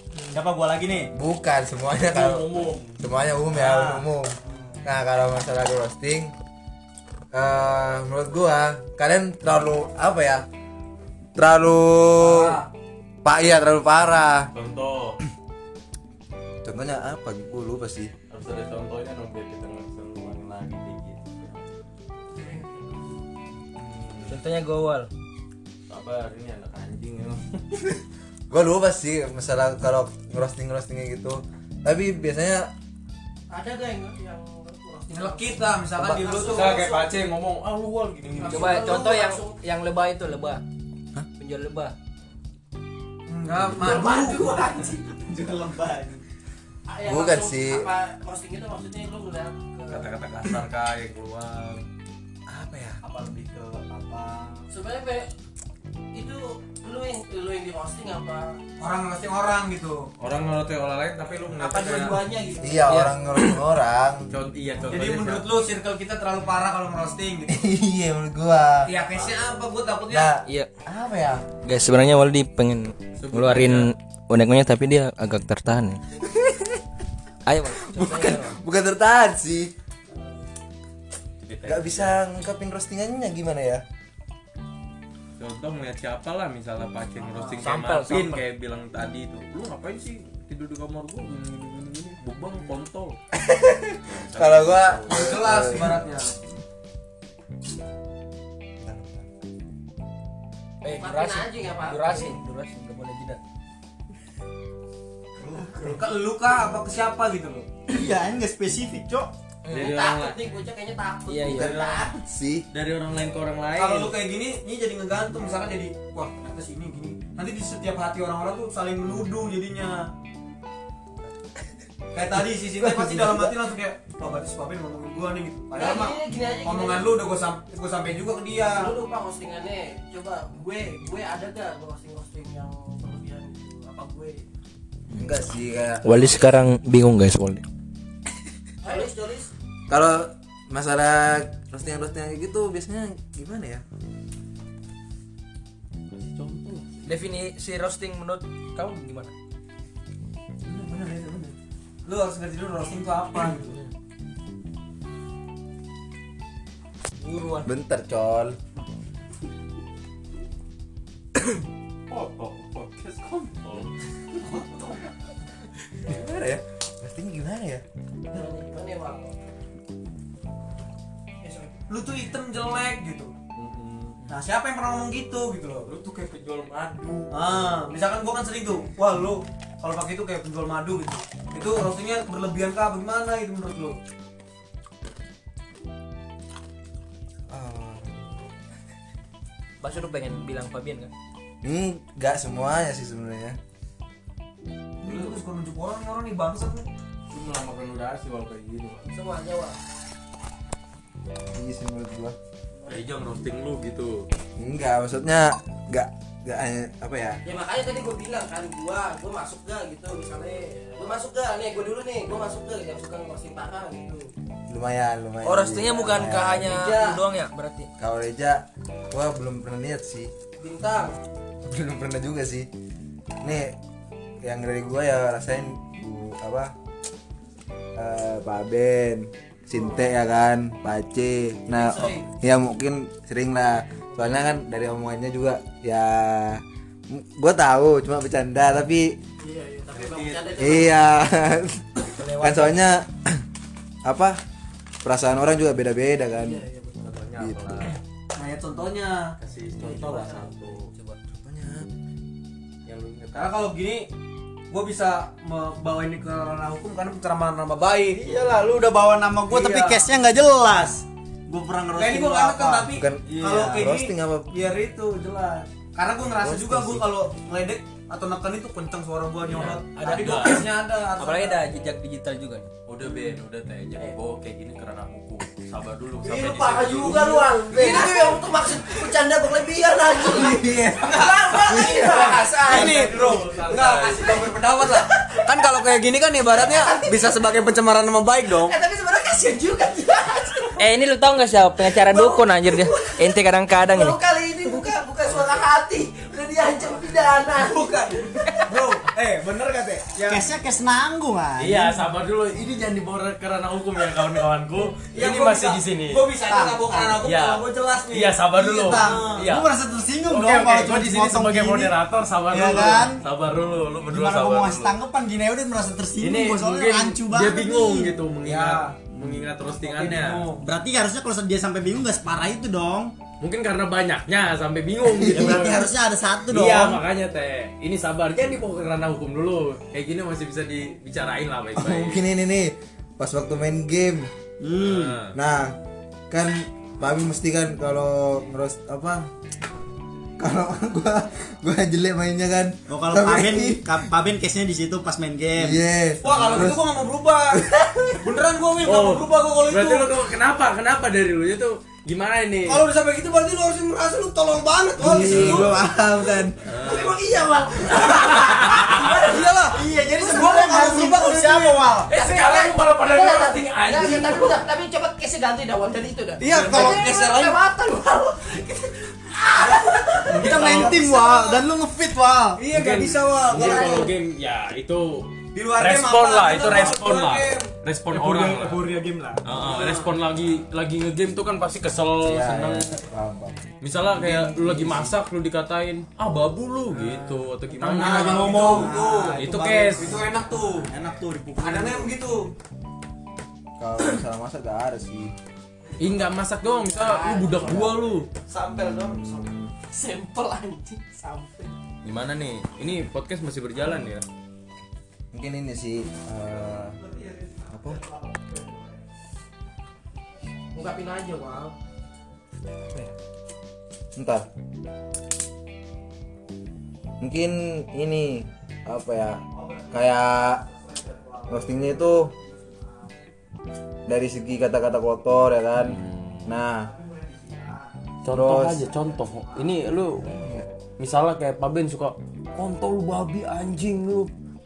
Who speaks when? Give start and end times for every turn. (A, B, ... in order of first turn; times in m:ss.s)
0:00.3-0:01.1 A
0:01.1-0:06.3 B
0:02.1-0:03.0 C
0:03.6-0:04.0 A
0:07.3-0:10.5 B
0:11.4-0:12.6 B
0:12.2-0:12.7 D
0:13.2-0:14.5 B
0:14.5-0:15.2 C
0:16.6-0:18.1 B
0:18.3-0:21.7 C
0:23.8-0:24.4 B
0:24.3-0:25.1 E
0:25.9-0:27.6 C
0:28.5-0:32.7 B
0:33.5-0:36.9 F
0:35.1-0:37.0 D
0:36.5-0:39.0 C
0:38.3-0:39.6 F
0:38.5-0:40.6 E
0:41.4-0:42.0 E
0:43.3-0:45.3 D
0:43.9-0:44.6 F
0:43.9-0:44.6 A
0:45.2-0:46.2 A
0:46.9-0:50.2 F
0:47.0-0:47.9 B
0:49.9-0:51.9 C
0:52.5-0:53.0 B
0:53.0-0:54.7 A
0:54.7-0:55.3 F
0:56.1-0:58.6 F
0:58.8-1:00.1 D
1:00.2-1:02.2 C
1:01.6-1:03.0 F
1:01.6-1:02.1 D
1:02.6-1:04.3 B
1:02.9-1:03.2 E
1:04.3-1:05.5 C
1:04.9-1:07.6 D
1:07.5-1:08.9 B
1:08.8-1:10.4 D
1:10.1-1:11.5 B
1:11.6-1:16.0 E
1:13.2-1:13.9 C
1:17.5-1:18.6 E
1:17.7-1:19.7 B
1:21.4-1:22.2 C
1:21.6-1:23.8 B
1:25.4-1:33.2 C
1:27.2-1:28.3 D
1:27.7-1:28.3 E
1:33.4-1:36.1 B
1:34.1-1:35.2 C
1:35.1-1:36.4 D
1:38.8-1:39.3 B
1:40.8-1:43.4 E
1:40.9-1:42.4 F
1:45.5-1:47.7 D
1:47.9-1:49.3 A
1:49.6-1:50.0 E
1:49.7-1:50.4 C
1:49.7-1:52.1 F
1:51.3-1:51.9 E
1:51.5-1:52.7 B
1:52.7-1:54.2 C
1:53.8-2:00.1 D
2:02.1-2:08.9 D
2:05.7-2:07.2 F
2:08.7-2:14.4 F
2:15.1-2:16.6 B
2:16.0-2:17.7 E
2:18.8-2:19.5 F
2:19.9-2:23.8 B
2:26.1-2:26.8 C
2:27.0-2:29.3 E
2:30.7-2:31.5 D
2:32.0-2:33.8 D
2:37.2-2:37.7 D
2:37.6-2:38.6 B
2:42.1-2:43.9 C
2:46.1-2:47.8 B
2:48.3-2:49.4 F
2:51.4-2:51.8 F
2:51.9-2:53.3 D
2:53.6-2:54.2 C
2:54.3-2:55.9 D
2:55.9-2:57.7 C
2:57.3-3:04.0 D
3:07.5-3:08.3 B
3:09.8-3:11.1 E
3:11.6-3:13.6 B
3:15.0-3:16.9 D
3:15.0-3:15.4 C
3:17.3-3:19.1 C
3:19.1-3:19.8 F
3:21.5-3:22.4 B
3:22.8-3:23.1 F
3:22.9-3:24.3 C
3:24.6-3:27.4 B
3:27.4-3:34.3 F
3:34.7-3:36.9 B
3:35.4-3:37.9 E
3:36.8-3:37.2 F
3:38.0-3:40.3 B
3:40.6-3:41.2 F
3:41.6-3:42.7 B
3:43.4-3:43.8 B
3:44.4-3:46.7 B
3:48.0-3:59.2 B
3:49.7-3:50.1 F
3:51.7-3:52.3 F
3:59.4-4:01.0 F
4:00.6-4:03.4 B
4:02.1-4:02.7 F
4:04.0-4:04.4 B
4:05.0-4:06.6 B
4:06.4-4:07.0 F
4:07.0-4:08.0 C
4:07.4-4:08.0 B
4:08.4-4:09.4 D
4:09.4-4:10.9 C
4:09.8-4:10.8 F
4:11.3-4:11.9 B
4:12.9-4:13.6 C
4:13.3-4:14.1 D
4:14.7-4:18.5 D
4:18.1-4:23.8 A
4:19.5-4:20.1 D
4:21.9-4:31.7 D
4:22.9-4:24.5 B
4:26.2-4:27.1 B
4:29.5-4:30.7 C
4:30.0-4:32.7 E
4:32.9-4:37.4 C
4:36.2-4:45.5 F
4:37.0-4:38.2 D
4:40.2-4:42.4 B
4:41.0-4:48.8 D
4:42.7-4:44.4 C
4:46.6-4:47.3 F
4:48.7-4:50.9 F
4:50.8-4:54.2 E
4:51.9-4:58.7 F
4:57.5-5:00.4 D
5:00.2-5:02.0 A
5:01.6-5:06.3 C
5:05.1-5:09.5 D
5:06.4-5:07.2 A
5:07.2-5:09.7 C
5:08.6-5:12.0 A
5:10.2-5:15.0 C
5:12.5-5:13.3 A
5:12.6-5:13.1 D
5:14.0-5:18.2 A
5:16.2-5:20.5 C
5:18.4-5:19.0 D
5:19.2-5:19.4 A
5:19.8-5:20.7 D
5:20.6-5:23.1 A
5:23.4-5:25.9 C
5:25.2-5:27.0 A
5:26.5-5:32.2 C
5:31.8-5:34.3 B
5:34.6-5:35.2 A
5:34.8-5:35.4 C
5:35.3-5:35.8 B
5:36.3-5:39.3 B
5:40.4-5:44.1 B
5:42.9-5:45.8 A
5:45.6-5:46.9 B
5:46.2-5:50.1 D
5:47.5-5:48.2 B
5:48.8-5:52.9 C
5:52.6-5:55.9 D
5:55.0-5:56.6 B
5:55.3-5:55.6 C
5:56.7-5:57.2 C
5:56.8-5:58.5 F
5:57.9-6:02.0 D
5:58.1-5:59.1 C
5:59.7-6:02.1 A
6:02.1-6:04.6 C
6:02.1-6:10.7 F
6:06.4-6:07.6 D
6:06.5-6:07.0 A
6:06.7-6:07.0 C
6:09.6-6:11.6 D
6:10.3-6:12.6 A
6:10.6-6:10.9 C
6:12.6-6:14.1 D
6:12.7-6:18.9 C
6:13.5-6:14.1 F
6:15.5-6:17.7 D
6:18.1-6:19.4 A
6:19.4-6:23.0 C
6:19.5-6:20.1 D
6:22.2-6:25.2 B
6:23.8-6:30.2 C
6:27.7-6:30.9 D
6:27.8-6:32.2 A
6:31.6-6:32.5 D
6:33.8-6:35.3 B
6:36.0-6:38.3 C
6:36.6-6:38.2 F
6:38.5-6:39.5 D
6:38.8-6:39.7 B
6:39.9-6:41.8 F
6:42.0-6:44.2 C
6:45.3-6:47.0 B
6:47.1-6:48.8 A
6:47.7-6:48.0 B
6:50.7-6:51.8 F
6:54.2-6:54.5 B
6:57.2-7:00.6 B
7:00.9-7:01.5 A
7:01.5-7:02.3 B
7:04.1-7:06.9 B
7:05.8-7:06.5 C
7:07.0-7:07.7 A
7:08.2-7:14.3 C
7:08.3-7:08.9 B
7:10.2-7:10.7 B